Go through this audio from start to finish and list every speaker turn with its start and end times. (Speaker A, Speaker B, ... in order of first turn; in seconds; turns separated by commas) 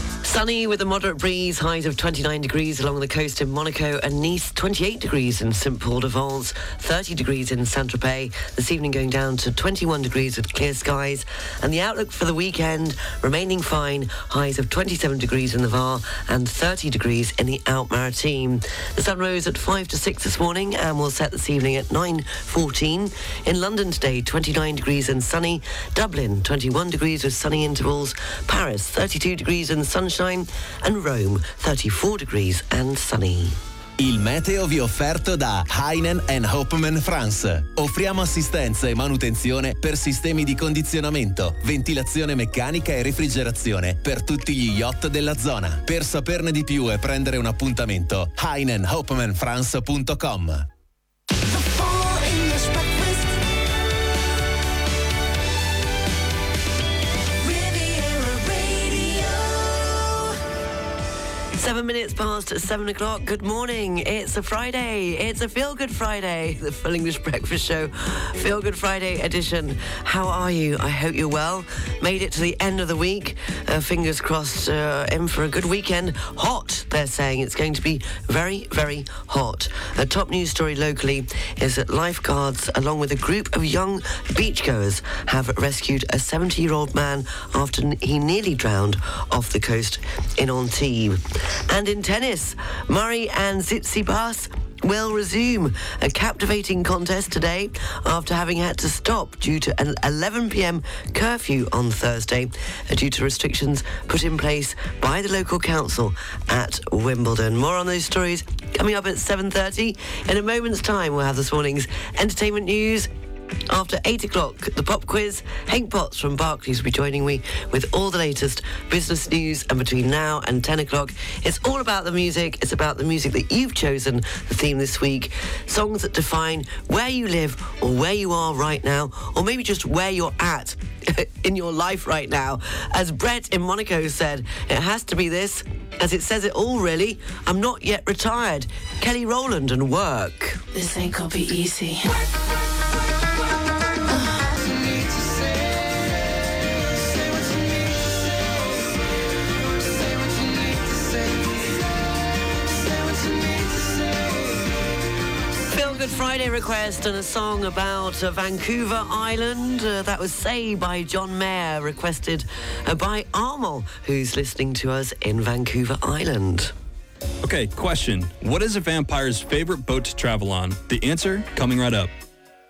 Speaker A: 0.2-33.6, Speaker B: 34.0-50.6, Speaker C: 51.3-53.4, Speaker C: 57.4-60.3, Speaker A: 61.5-113.1, Speaker A: 113.7-140.6, Speaker C: 140.8-142.2, Speaker C: 144.1-145.3, Speaker C: 147.2-148.7, Speaker C: 149.9-151.3, Speaker C: 152.9-154.2, Speaker A: 155.7-166.7, Speaker D: 167.4-172.1